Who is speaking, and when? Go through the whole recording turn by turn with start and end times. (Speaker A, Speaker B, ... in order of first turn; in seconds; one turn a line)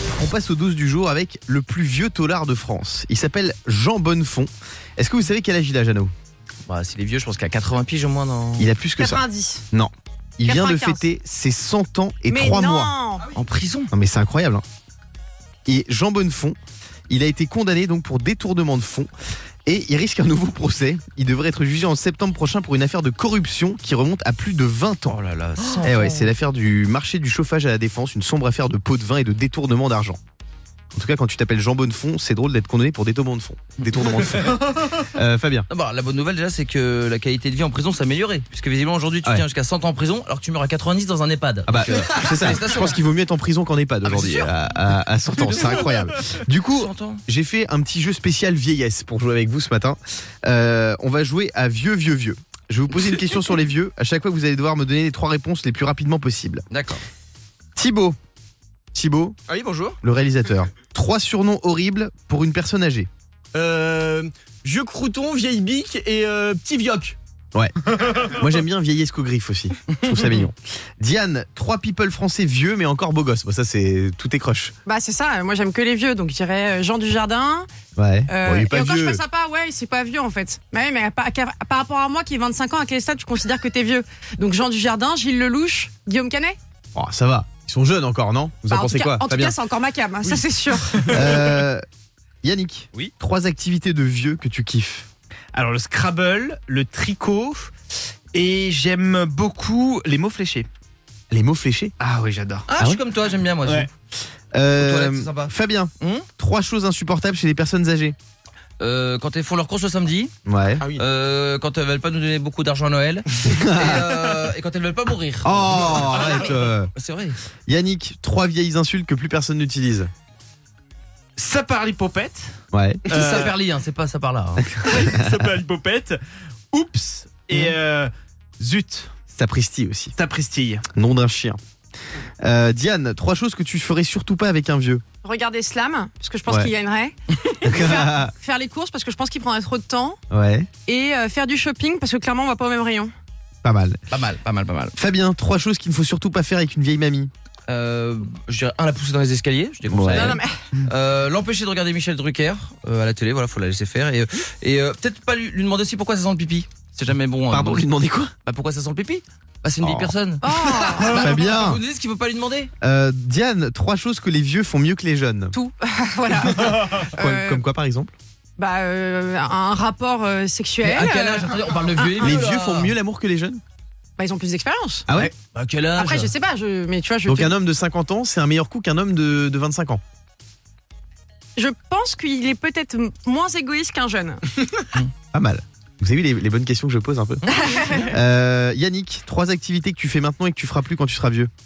Speaker A: 0.2-6.1
Speaker B: 6.7-8.7
Speaker A: 8.6-12.9
Speaker C: 9.0-9.6
Speaker C: 10.4-11.0
Speaker C: 12.3-13.2
Speaker B: 13.3-13.9
Speaker A: 13.9-14.6
Speaker A: 15.7-16.6
Speaker A: 17.1-19.1
Speaker A: 19.6-25.2
Speaker B: 25.1-26.3
Speaker A: 25.8-30.2
Speaker A: 30.9-35.7
Speaker B: 35.7-43.0
Speaker A: 41.7-56.6
Speaker B: 45.3-47.2
Speaker B: 56.7-57.0
Speaker A: 57.8-58.1
Speaker A: 58.9-59.4
Speaker D: 59.5-59.9
Speaker A: 60.0-63.1
Speaker D: 63.5-67.2
Speaker A: 67.5-74.7
Speaker C: 74.8-77.7
Speaker A: 78.0-79.2
Speaker C: 78.3-86.6
Speaker A: 86.9-89.5
Speaker C: 88.7-91.1
Speaker A: 91.1-91.8
Speaker A: 92.4-95.1
Speaker E: 95.5-97.7
Speaker E: 98.3-100.7
Speaker A: 101.3-101.9
Speaker E: 102.0-102.7
Speaker B: 102.7-103.9
Speaker E: 103.6-103.9
Speaker A: 104.5-108.2
Speaker B: 104.8-106.3
Speaker B: 108.8-117.4
Speaker A: 110.5-111.0
Speaker A: 113.5-114.0
Speaker A: 115.4-116.9
Speaker A: 117.7-120.1
Speaker E: 121.3-122.5
Speaker A: 122.7-123.0
Speaker E: 123.1-123.5
Speaker B: 123.1-125.0
Speaker E: 124.8-126.2
Speaker E: 126.7-129.2
Speaker A: 129.3-130.1
Speaker E: 130.2-130.8
Speaker A: 130.9-131.6
Speaker A: 132.4-135.0
Speaker C: 135.2-140.2
Speaker A: 137.6-138.3
Speaker A: 140.3-140.7
Speaker C: 140.8-143.1
Speaker A: 143.6-144.0
Speaker B: 144.1-144.9
Speaker A: 144.9-147.3
Speaker B: 147.7-157.9
Speaker A: 149.9-150.4
Speaker C: 150.1-150.5
Speaker A: 157.5-158.3
Speaker B: 158.4-162.7
Speaker A: 159.8-160.1
Speaker C: 160.4-161.2
Speaker A: 160.9-161.8
Speaker A: 162.8-165.5
Speaker C: 165.5-167.6
Speaker A: 166.5-168.1
Speaker C: 168.6-172.5
Speaker B: 170.8-172.9
Speaker A: 172.2-173.6
Speaker C: 174.2-175.1
Speaker B: 175.1-176.3
Speaker C: 175.9-177.5
Speaker A: 177.2-180.0
Speaker C: 181.6-184.8
Speaker A: 185.3-191.5
Speaker C: 187.5-188.1